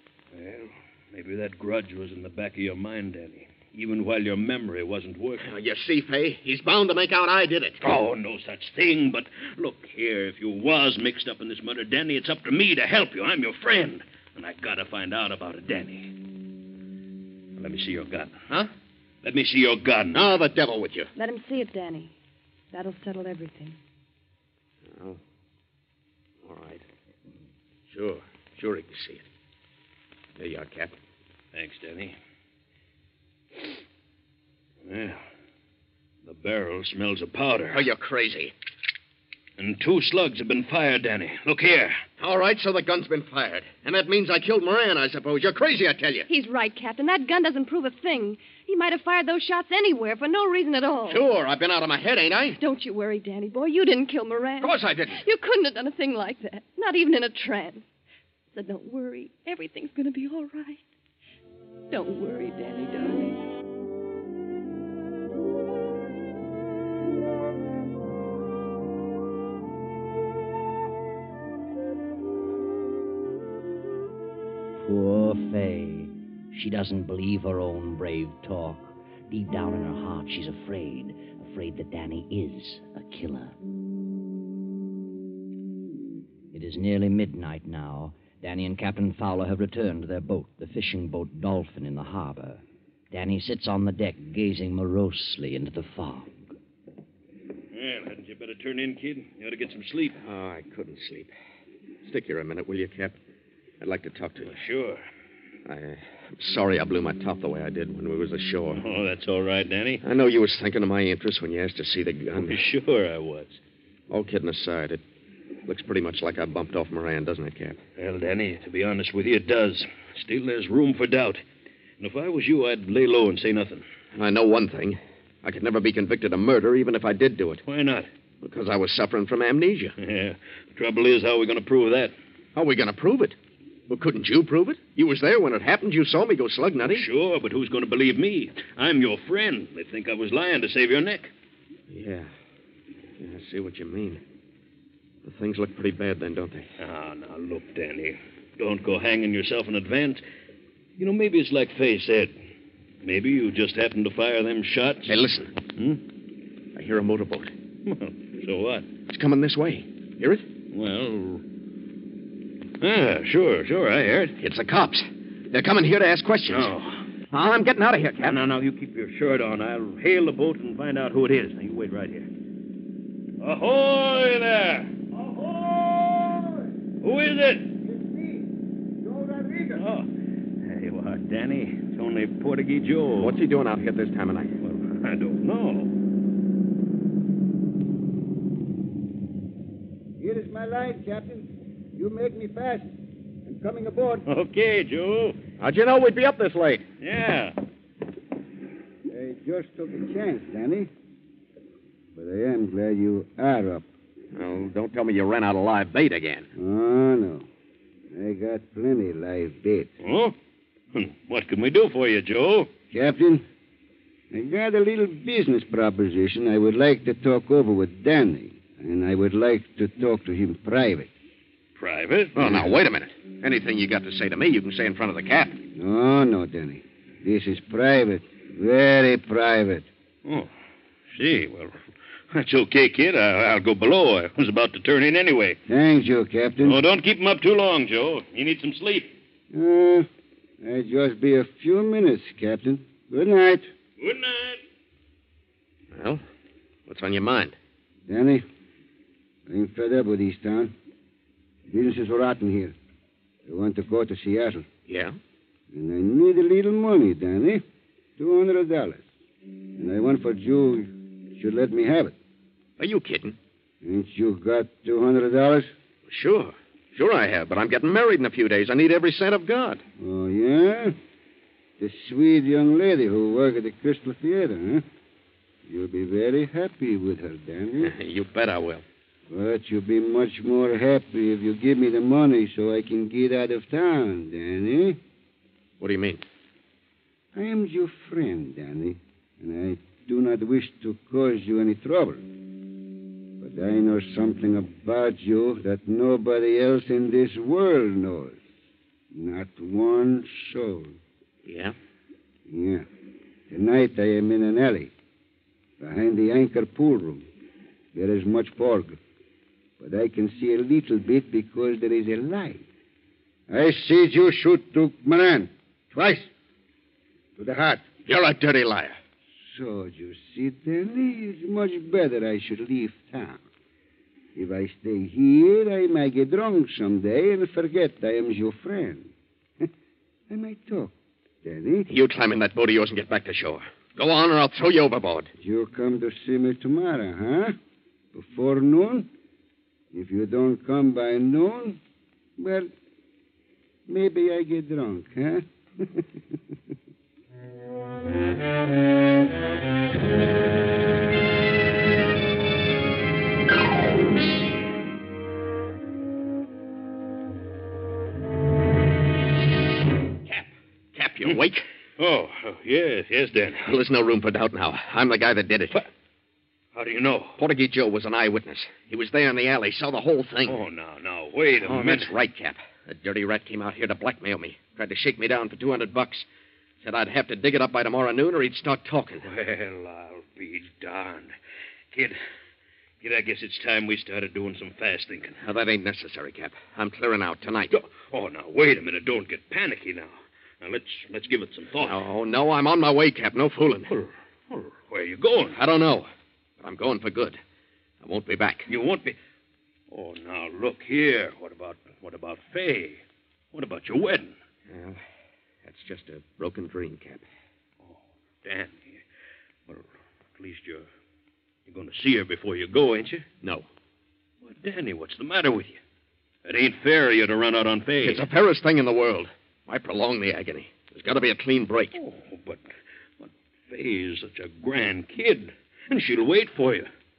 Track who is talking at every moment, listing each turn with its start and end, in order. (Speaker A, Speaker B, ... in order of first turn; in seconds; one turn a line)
Speaker A: 0.3-5.5
Speaker B: 5.4-7.8
Speaker A: 7.8-16.1
Speaker A: 17.6-18.4
Speaker A: 19.2-20.3
Speaker B: 20.1-21.1
Speaker C: 21.2-22.1
Speaker C: 22.7-23.8
Speaker B: 24.9-25.2
Speaker B: 26.4-26.8
Speaker B: 27.9-29.2
Speaker B: 30.4-31.0
Speaker A: 31.5-32.2
Speaker A: 34.9-35.2
Speaker A: 36.2-37.9
Speaker B: 37.7-38.5
Speaker A: 39.6-42.0
Speaker B: 42.2-46.3
Speaker C: 46.3-51.2
Speaker B: 51.1-52.6
Speaker C: 52.6-57.9
Speaker B: 54.6-55.2
Speaker C: 58.5-60.8
Speaker C: 61.9-63.4
Speaker D: 74.8-83.5
Speaker D: 86.5-96.4
Speaker A: 97.7-100.2
Speaker B: 100.2-101.3
Speaker B: 102.0-103.2
Speaker B: 103.8-104.6
Speaker A: 104.5-105.0
Speaker B: 105.7-108.8
Speaker A: 108.8-110.0
Speaker B: 110.0-112.6
Speaker A: 112.4-113.6
Speaker B: 114.1-115.0
Speaker B: 115.7-117.8
Speaker A: 118.0-121.4
Speaker A: 122.0-123.8
Speaker B: 124.2-127.6
Speaker A: 127.7-128.1
Speaker B: 128.4-129.9
Speaker A: 130.0-132.1
Speaker B: 132.6-133.4
Speaker B: 133.9-137.1
Speaker A: 136.8-141.3
Speaker B: 141.9-142.3
Speaker B: 143.2-144.2
Speaker B: 145.2-146.7
Speaker A: 146.8-150.2
Speaker A: 151.0-152.3
Speaker A: 153.0-155.2
Speaker B: 155.1-155.6
Speaker A: 155.8-156.0
Speaker B: 156.8-157.5
Speaker A: 157.8-158.9
Speaker B: 159.1-160.5
Speaker A: 160.7-161.4
Speaker A: 162.8-164.4
Speaker B: 164.4-166.7
Speaker A: 166.5-167.1
Speaker B: 167.3-168.4
Speaker A: 168.2-172.3
Speaker A: 173.4-175.0
Speaker E: 175.1-176.7
Speaker A: 177.0-177.7
Speaker E: 177.8-178.5
Speaker E: 179.0-179.8
Speaker A: 179.8-180.1
Speaker A: 180.6-183.4
Speaker B: 183.2-184.6
Speaker A: 184.6-185.9
Speaker E: 190.2-192.9
Speaker E: 193.4-194.3
Speaker A: 194.3-195.4
Speaker B: 195.6-196.8
Speaker A: 197.0-197.6
Speaker E: 199.1-200.9
Speaker E: 202.1-203.9
Speaker B: 204.3-206.5
Speaker E: 206.6-207.5
Speaker E: 208.1-209.9
Speaker A: 210.0-210.3
Speaker A: 210.9-212.7
Speaker E: 212.9-213.5
Speaker E: 214.3-221.1
Speaker A: 221.8-222.6
Speaker B: 222.3-225.6
Speaker E: 225.7-229.9
Speaker A: 230.2-230.5
Speaker A: 231.1-235.6
Speaker E: 235.7-236.8
Speaker A: 236.6-239.1
Speaker E: 239.5-240.1
Speaker E: 240.6-243.7
Speaker A: 244.0-244.6
Speaker B: 245.9-246.2
Speaker B: 246.9-247.6
Speaker E: 248.1-248.4
Speaker E: 249.5-250.7
Speaker E: 251.7-252.8
Speaker E: 253.5-254.7
Speaker B: 254.9-255.2
Speaker E: 255.7-257.6
Speaker E: 258.2-259.0
Speaker E: 259.8-262.2
Speaker B: 262.8-263.4
Speaker E: 263.8-265.7
Speaker B: 266.1-269.8
Speaker E: 270.0-271.0
Speaker E: 271.8-274.9
Speaker E: 275.6-277.9
Speaker B: 277.8-278.8
Speaker E: 279.3-285.0
Speaker B: 285.8-286.2
Speaker E: 287.3-292.3
Speaker E: 293.4-298.4
Speaker E: 299.1-301.0
Speaker B: 301.4-301.8
Speaker E: 302.5-302.9
Speaker E: 303.5-304.9
Speaker E: 305.8-307.3
Speaker E: 307.9-309.0
Speaker E: 309.8-312.6
Speaker E: 313.5-316.3
Speaker E: 317.4-317.9
Speaker B: 318.1-319.0
Speaker E: 319.4-323.4
Speaker E: 324.4-329.7
Speaker E: 330.3-331.9
Speaker B: 331.9-335.3
Speaker E: 335.4-337.6
Speaker E: 338.1-339.1
Speaker E: 339.9-341.8
Speaker E: 342.4-342.7
Speaker E: 343.9-346.4
Speaker B: 360.3-361.6
Speaker A: 362.0-363.7
Speaker B: 363.6-365.9
Speaker A: 366.8-367.4
Speaker B: 367.4-370.6
Speaker A: 370.5-372.1
Speaker B: 371.6-376.3
Speaker B: 376.8-379.3
Speaker A: 379.2-381.3
Speaker A: 383.0-385.4
Speaker B: 385.4-387.8
Speaker A: 387.7-392.0
Speaker B: 391.8-393.9
Speaker A: 393.9-395.6
Speaker B: 395.5-396.1
Speaker B: 396.6-397.4
Speaker B: 398.0-398.7
Speaker A: 398.7-399.2
Speaker A: 399.9-403.0
Speaker A: 403.5-404.4
Speaker B: 404.7-405.0
Speaker B: 405.6-407.2
Speaker A: 407.8-409.0
Speaker A: 409.7-410.9
Speaker A: 411.7-413.3
Speaker A: 414.4-415.8
Speaker A: 416.4-418.3
Speaker B: 418.0-422.0
Speaker A: 421.9-422.7
Speaker A: 423.2-426.9